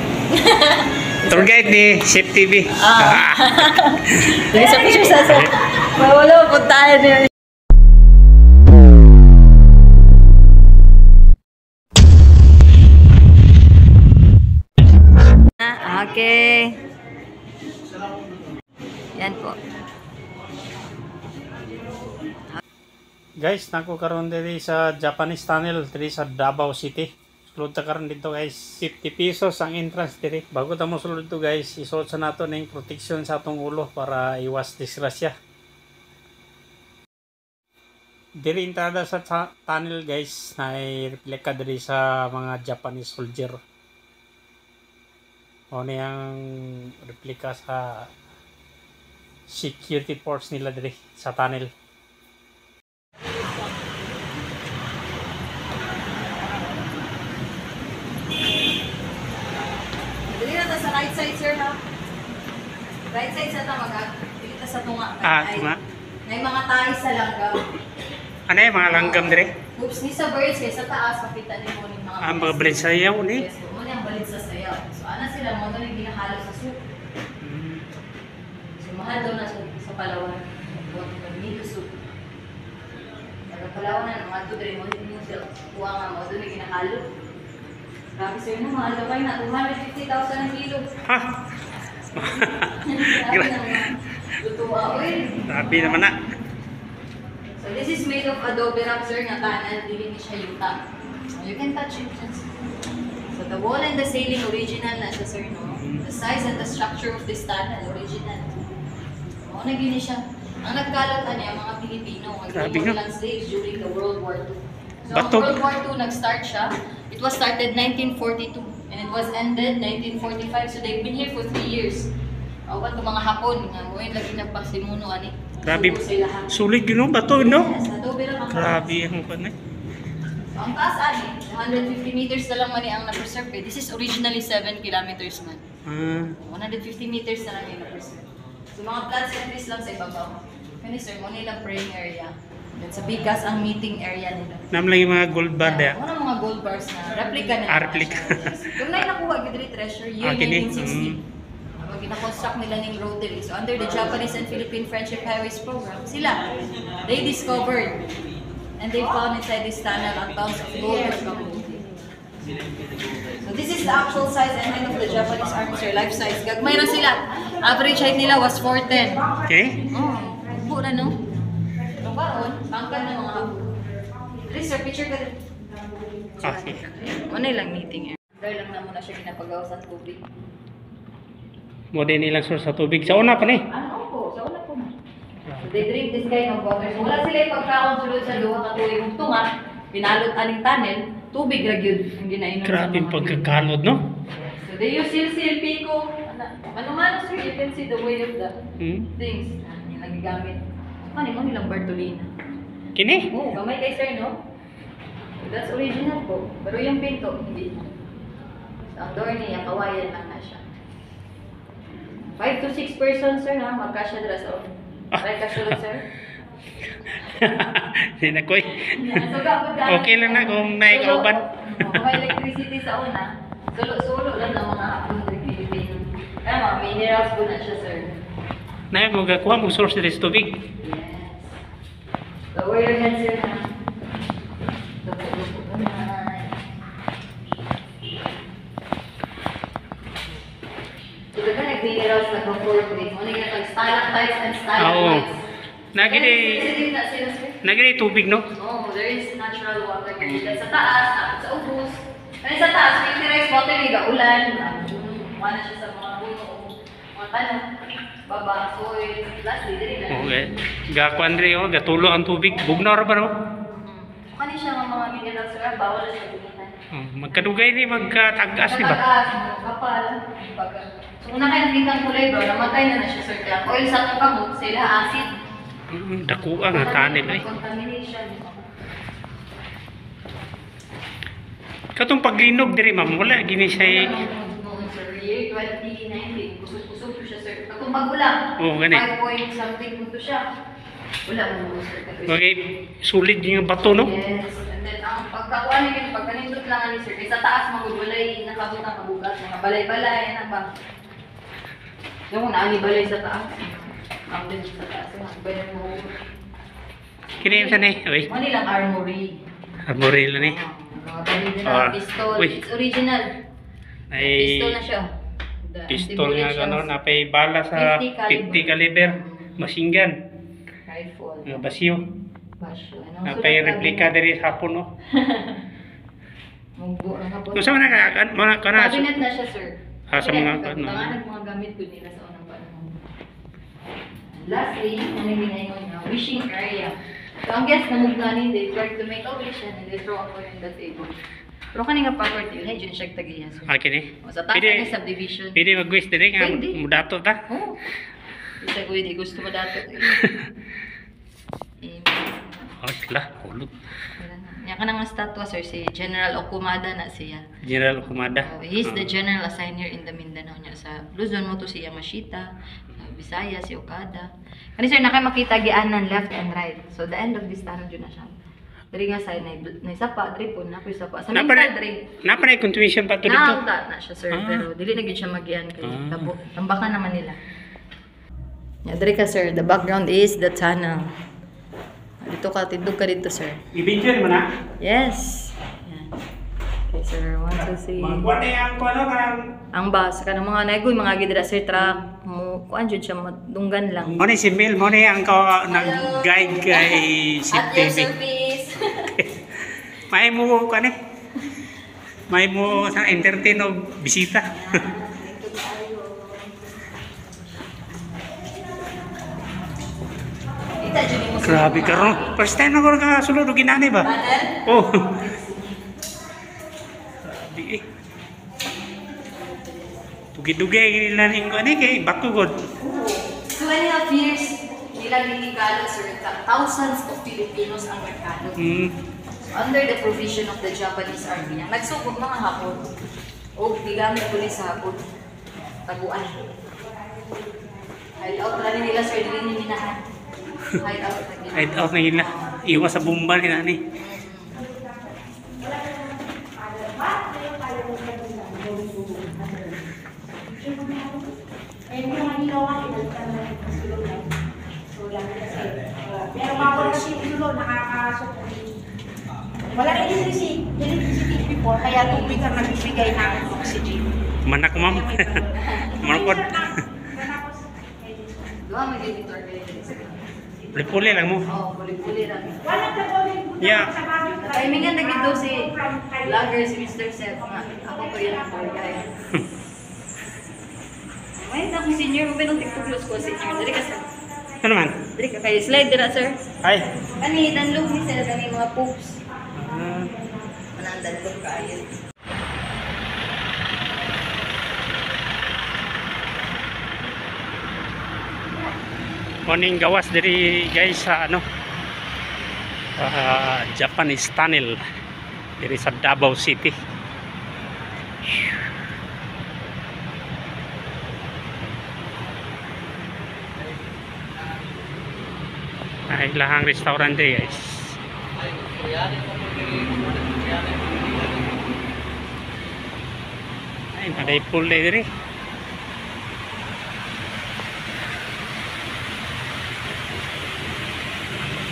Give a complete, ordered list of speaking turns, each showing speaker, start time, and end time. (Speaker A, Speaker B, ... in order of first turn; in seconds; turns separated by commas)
Speaker A: 0.3-1.8, Speaker B: 1.3-3.6, Speaker A: 2.8-7.3, Speaker A: 15.6-16.8, Speaker A: 19.2-19.6, Speaker B: 23.4-35.3, Speaker B: 38.4-43.6, Speaker B: 45.7-48.1, Speaker B: 49.5-51.7, Speaker A: 60.3-61.8, Speaker A: 63.1-65.8, Speaker B: 65.2-65.8, Speaker A: 66.3-67.5, Speaker B: 68.5-69.5, Speaker A: 68.8-76.8, Speaker B: 72.2-73.4, Speaker B: 77.4-77.8, Speaker A: 78.8-81.9, Speaker A: 83.5-87.0, Speaker A: 88.2-90.9, Speaker B: 92.1-94.0, Speaker A: 92.8-95.9, Speaker B: 95.5-96.2, Speaker A: 97.6-100.8, Speaker A: 101.3-102.5, Speaker A: 103.3-108.6, Speaker B: 105.8-106.0, Speaker A: 109.4-122.1, Speaker B: 112.5-113.0, Speaker B: 115.1-115.5, Speaker A: 122.7-126.5, Speaker B: 125.6-126.0, Speaker B: 126.5-127.7, Speaker A: 127.3-128.9, Speaker B: 128.5-129.5, Speaker A: 130.5-135.6, Speaker B: 135.8-136.4, Speaker A: 136.4-144.7, Speaker B: 144.7-146.0, Speaker A: 145.6-151.2, Speaker B: 147.7-148.6, Speaker B: 150.2-151.2, Speaker A: 151.8-156.5, Speaker A: 157.0-158.0, Speaker A: 158.8-161.9, Speaker A: 163.4-169.3, Speaker B: 169.4-169.8, Speaker A: 169.9-171.2, Speaker A: 171.9-173.8, Speaker A: 174.4-175.3, Speaker B: 176.4-176.9, Speaker A: 176.4-180.2, Speaker B: 181.9-183.6, Speaker A: 183.1-184.9, Speaker B: 185.5-185.8, Speaker A: 185.6-193.5, Speaker B: 192.6-194.0, Speaker A: 194.3-198.6, Speaker B: 198.8-199.1, Speaker A: 199.2-202.3, Speaker B: 202.9-203.3, Speaker A: 203.3-204.3, Speaker A: 205.4-207.9, Speaker A: 208.9-210.6, Speaker A: 212.4-216.0, Speaker B: 215.1-215.7, Speaker B: 217.2-219.3, Speaker A: 218.7-228.1, Speaker B: 219.9-222.3, Speaker B: 228.9-230.6, Speaker A: 230.8-231.5, Speaker A: 232.5-233.7, Speaker A: 235.0-236.6, Speaker A: 241.3-245.4, Speaker B: 244.8-245.2, Speaker B: 245.9-246.7, Speaker A: 245.9-247.6, Speaker B: 247.6-248.4, Speaker A: 248.6-260.5, Speaker B: 260.1-263.3, Speaker A: 263.7-266.8, Speaker B: 266.9-269.0, Speaker A: 268.6-275.3, Speaker B: 275.9-277.4, Speaker A: 276.7-278.7, Speaker B: 281.9-284.1, Speaker A: 283.6-290.4, Speaker B: 288.6-289.0, Speaker A: 291.2-292.5, Speaker B: 292.3-294.1, Speaker A: 293.9-300.6, Speaker A: 302.3-306.1, Speaker A: 307.4-309.4, Speaker B: 307.4-308.3, Speaker B: 309.9-310.6, Speaker A: 310.4-313.3, Speaker B: 311.6-312.6, Speaker B: 314.1-314.8, Speaker A: 314.2-315.1, Speaker A: 315.6-316.9, Speaker B: 315.9-320.1, Speaker A: 317.7-319.5, Speaker A: 320.9-321.7, Speaker B: 321.4-322.0, Speaker A: 322.6-324.1, Speaker B: 323.2-324.9, Speaker A: 325.1-325.6, Speaker A: 326.8-328.1, Speaker B: 327.5-329.1, Speaker A: 328.7-332.9, Speaker B: 330.1-331.1, Speaker A: 334.3-336.9, Speaker A: 337.4-341.1, Speaker A: 341.7-345.6, Speaker B: 343.7-344.9, Speaker B: 345.5-347.4, Speaker A: 346.4-346.8, Speaker A: 347.5-347.8, Speaker A: 348.6-350.2, Speaker B: 350.2-350.4, Speaker A: 351.8-352.8, Speaker B: 352.8-353.7, Speaker A: 354.2-357.4, Speaker B: 357.6-359.0, Speaker A: 358.0-368.4, Speaker A: 368.9-372.0, Speaker B: 371.3-371.7, Speaker B: 372.2-373.6, Speaker A: 373.2-377.4, Speaker B: 374.3-374.7, Speaker B: 375.8-376.3, Speaker A: 378.9-381.1, Speaker A: 382.2-383.6, Speaker B: 383.7-384.4, Speaker A: 384.8-386.2, Speaker A: 386.9-388.3, Speaker B: 388.0-389.4, Speaker A: 389.7-394.2, Speaker B: 394.1-398.1, Speaker A: 395.7-399.2, Speaker B: 399.2-399.4, Speaker B: 399.9-400.9, Speaker B: 402.3-404.8, Speaker A: 402.8-403.2, Speaker A: 404.4-406.7, Speaker A: 410.8-412.4, Speaker B: 411.4-414.1, Speaker A: 414.0-415.8, Speaker B: 414.6-415.2, Speaker B: 417.2-417.8, Speaker B: 420.3-422.5, Speaker A: 422.8-428.6, Speaker B: 428.6-428.9, Speaker A: 429.5-432.8, Speaker A: 433.6-435.0, Speaker A: 435.9-436.5, Speaker A: 438.2-440.0, Speaker A: 440.6-442.6, Speaker B: 441.5-443.8, Speaker A: 444.0-444.7, Speaker C: 452.2-454.1, Speaker B: 456.3-457.5, Speaker C: 457.6-458.1, Speaker A: 459.8-460.4, Speaker C: 460.5-461.8, Speaker A: 461.9-462.6, Speaker C: 462.6-464.0, Speaker B: 464.4-467.0, Speaker A: 465.5-466.1, Speaker A: 468.6-470.3, Speaker B: 470.7-471.5, Speaker A: 471.4-473.4, Speaker B: 473.6-474.1, Speaker A: 474.1-479.2, Speaker A: 481.4-484.1, Speaker B: 484.6-485.0, Speaker A: 485.1-486.4, Speaker B: 486.6-486.9, Speaker A: 487.2-489.2, Speaker B: 489.6-490.1, Speaker A: 490.8-491.9, Speaker B: 499.5-501.4, Speaker B: 503.0-504.8, Speaker B: 505.6-506.7, Speaker B: 516.1-518.0, Speaker B: 523.9-525.0